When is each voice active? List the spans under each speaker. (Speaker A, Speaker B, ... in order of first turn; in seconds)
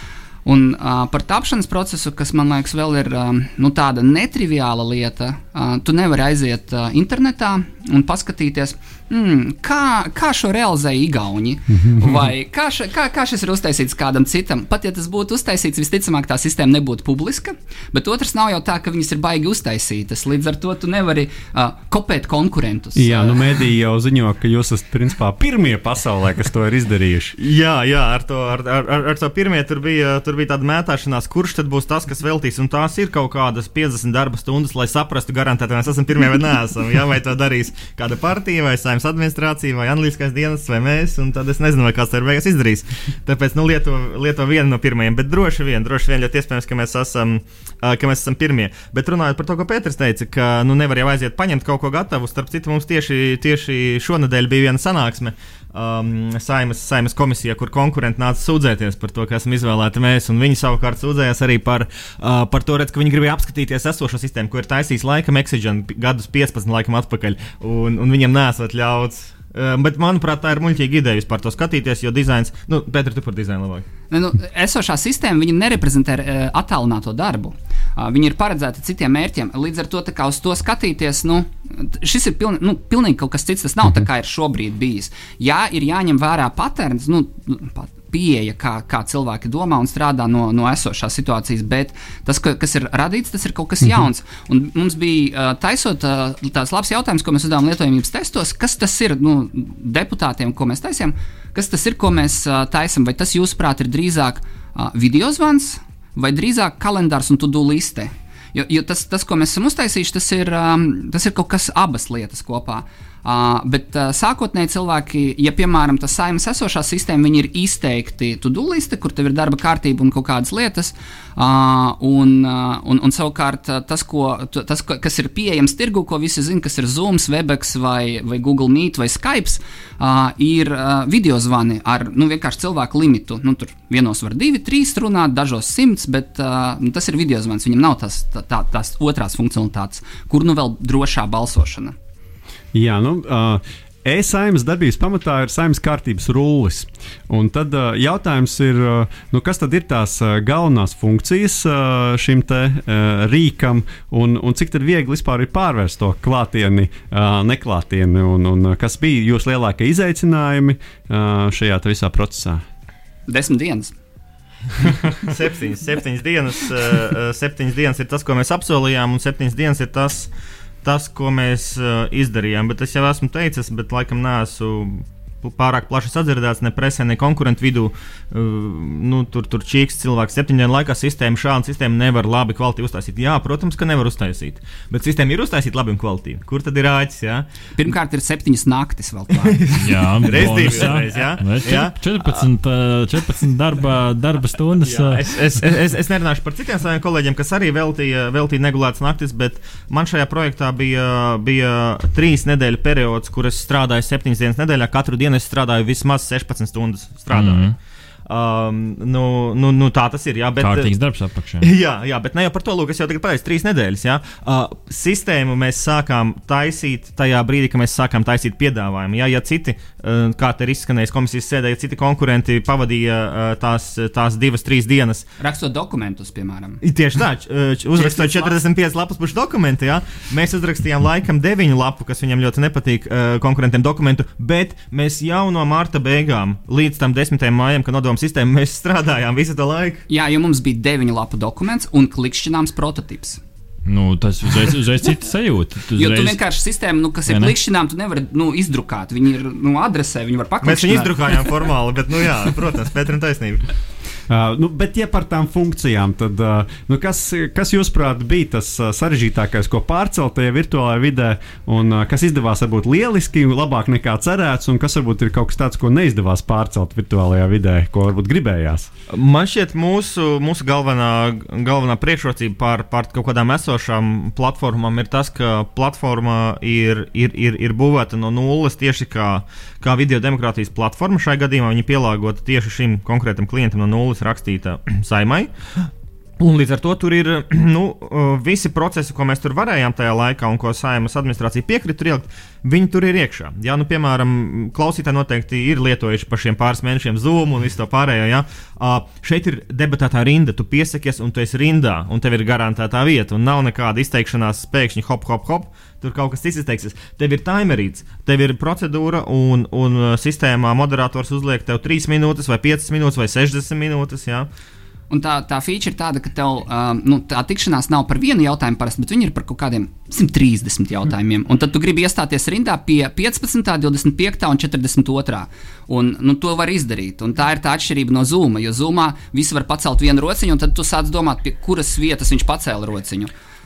Speaker A: 0.5-23.5, 74.1-141.9, 163.3-163.9, 187.8-189.7, 225.4-226.8, 227.9-228.6, 240.1-243.4, 246.0-251.4, 315.1-333.3
Speaker B: 11.8-12.3, 23.0-27.4, 142.7-162.6, 254.3-268.9
Speaker C: 27.4-73.9, 165.2-170.3, 170.8-187.5, 189.4-192.4, 194.8-207.7, 208.3-210.9, 211.6-225.3, 226.8-240.1, 250.6-253.7, 269.1-285.5, 286.4-314.5
Speaker D: 189.7-195.3, 207.3-207.8, 210.6-211.7, 243.9-246.4, 247.3-247.6